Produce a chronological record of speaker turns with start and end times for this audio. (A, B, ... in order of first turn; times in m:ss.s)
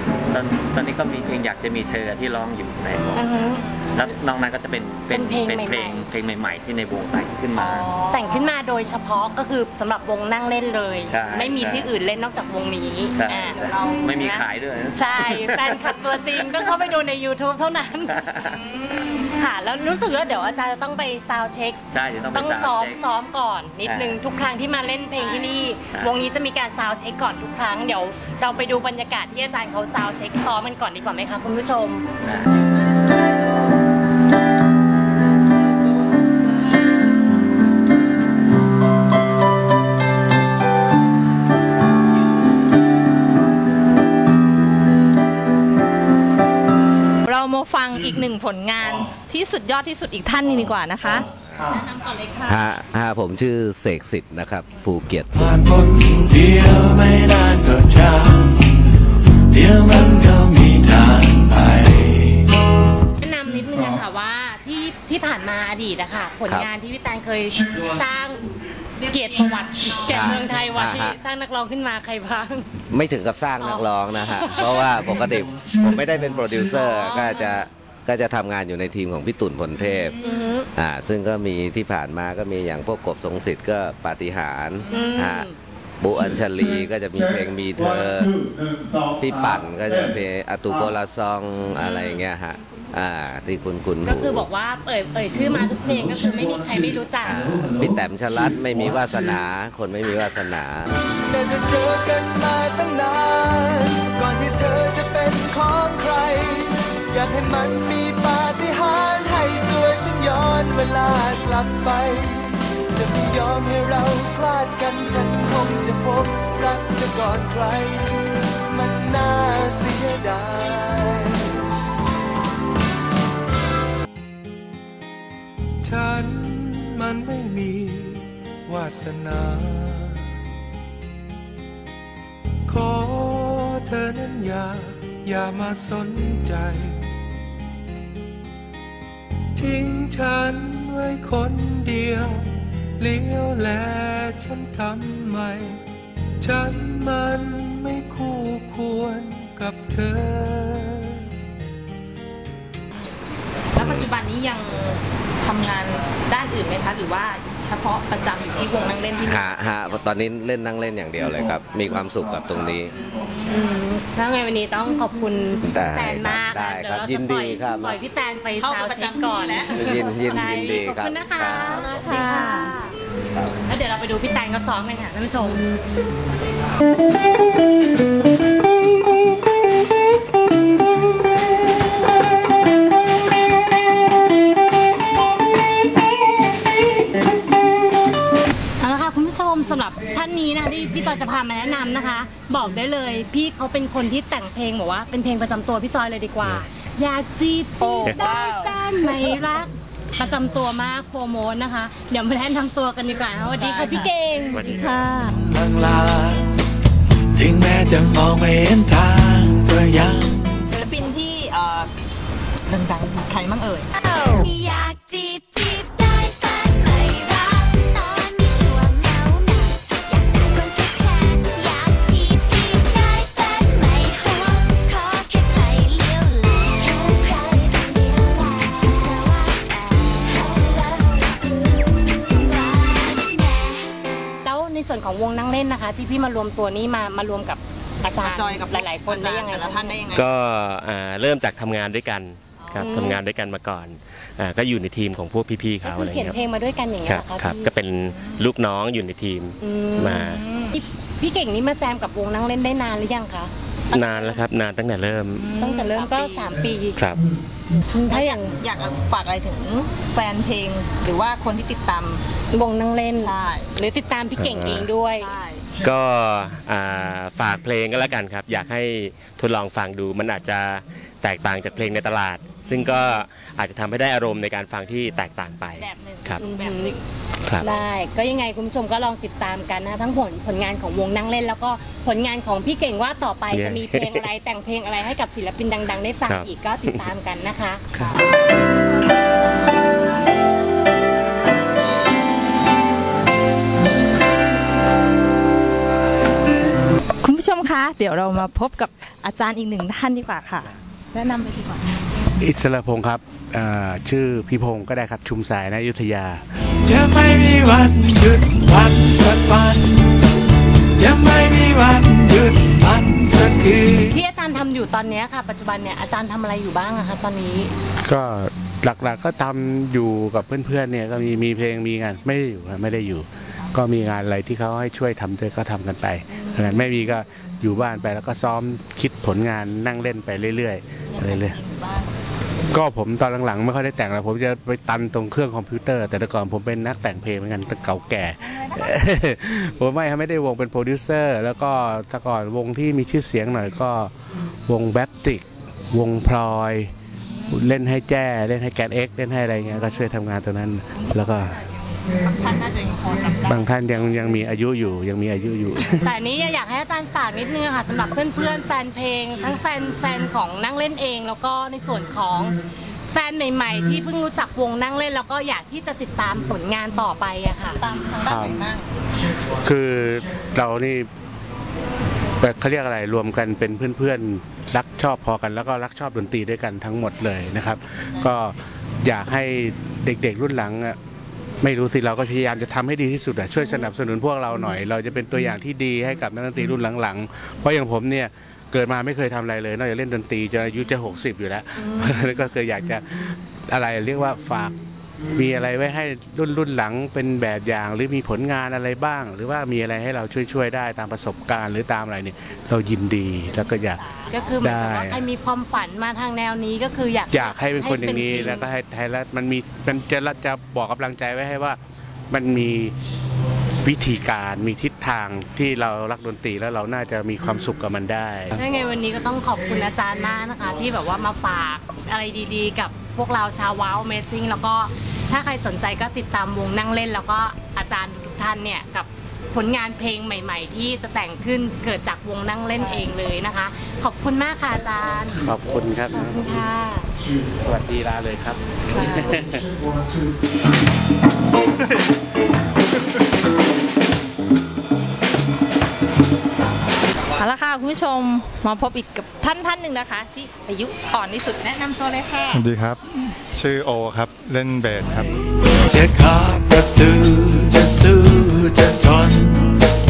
0:00.3-0:03.3 A
0:03.2-0:03.6 B
0:03.9-0:07.9 A
0:05.1-0:06.0 B
0:07.5-0:08.5 C
0:08.1-0:13.6 B
0:11.1-0:11.9 A
0:13.1-0:16.2 A
0:13.3-0:14.5 C
0:14.9-0:18.2 B
0:18.1-0:18.6 A
0:18.5-0:19.2 C
0:19.2-0:32.0 B
0:21.9-0:23.0 A
0:23.8-0:24.2 A
0:25.1-0:25.6 C
0:32.2-0:32.5 A
0:47.2-0:52.7 C
0:51.5-0:51.8 D
0:52.4-0:55.6 D
0:55.3-0:58.7 E
0:59.5-1:02.4 E
1:03.2-1:08.4 B
1:09.0-1:10.5 C
1:09.1-1:12.7 B
1:10.0-1:11.2 D
1:12.9-1:20.1 D
1:13.6-1:15.0 B
1:16.7-1:17.7 B
1:19.8-1:20.5 C
1:20.2-1:20.7 B
1:20.7-1:25.5 D
1:24.9-1:25.2 C
1:24.9-1:25.6 B
1:26.0-1:28.4 D
1:29.2-1:34.4 D
1:31.8-1:32.2 C
1:34.0-1:37.4 B
1:37.2-1:40.9 D
1:41.1-2:01.6 F
2:05.8-2:10.2 G
2:12.7-2:17.0 G
2:19.6-2:25.8 G
2:26.4-2:31.3 G
2:33.7-2:40.0 C
2:33.8-2:34.0 D
2:39.2-2:42.9 D
2:42.9-2:43.6 C
2:43.5-2:51.9 B
2:45.6-2:48.0 D
2:48.6-2:50.0 C
2:49.7-2:52.2 D
2:51.6-2:52.9 C
2:53.7-2:55.6 B
3:08.8-3:24.1 B
3:17.8-3:19.4 C
3:23.4-3:25.4 C
3:24.5-3:25.1 H
3:25.1-3:26.5 E
3:27.3-3:30.7 E
3:30.7-3:31.9 C
3:32.7-3:33.9 C
3:34.0-3:53.9 I
3:54.4-4:00.0 B
3:58.2-4:00.3 C
4:00.1-4:06.4 H
4:02.6-4:03.2 C
4:02.8-4:03.2 B
4:05.8-4:07.7 B
4:07.1-4:10.4 H
4:08.1-4:08.4 C
4:09.6-4:13.5 B
4:10.3-4:10.7 C
4:13.9-4:14.5 C
4:13.9-4:15.4 H
4:15.4-4:16.5 C
4:15.6-4:17.0 B
4:17.0-4:17.2 H
4:17.9-4:18.6 B
4:18.1-4:22.2 C
4:22.5-4:25.4 B
4:23.2-4:23.7 C
4:24.4-4:24.9 H
4:25.2-4:25.7 C
4:25.8-4:36.4 H
4:35.7-4:37.0 C
4:36.4-4:37.0 B
4:37.4-4:37.7 H
4:37.6-4:47.8 B
4:43.5-4:44.2 H
4:46.3-4:47.0 H
4:57.2-5:01.9 C
5:02.4-5:06.4 J
5:06.8-5:10.1 E
5:11.0-5:14.1 E
5:14.1-5:17.7 B
5:18.0-5:31.6 J
5:26.4-5:26.7 B
5:31.1-5:32.1 C
5:32.7-5:44.1 J
5:38.4-5:38.9 C
5:44.7-5:46.9 J
5:47.5-5:51.6 J
5:50.9-5:54.4 C
5:53.4-5:56.1 J
5:56.0-6:02.6 B
6:03.1-6:07.8 B
6:07.8-6:08.9 C
6:08.2-6:08.6 J
6:09.6-6:11.1 J
6:12.4-6:21.0 J
6:21.6-6:34.7 J
6:35.3-6:44.0 J
6:43.9-6:44.5 C
6:44.3-6:48.7 B
6:44.6-6:45.2 J
6:47.3-6:51.8 J
6:52.3-6:52.9 J
6:53.8-6:58.6 J
6:58.6-7:15.4 B
7:12.7-7:13.1 C
7:15.4-7:16.5 J
7:16.1-7:17.1 B
7:17.6-7:19.6 J
7:19.0-7:19.4 C
7:21.8-7:22.0 K
7:27.4-7:32.6 C
7:32.5-7:33.0 K
7:33.5-7:35.3 K
7:35.9-7:39.8 E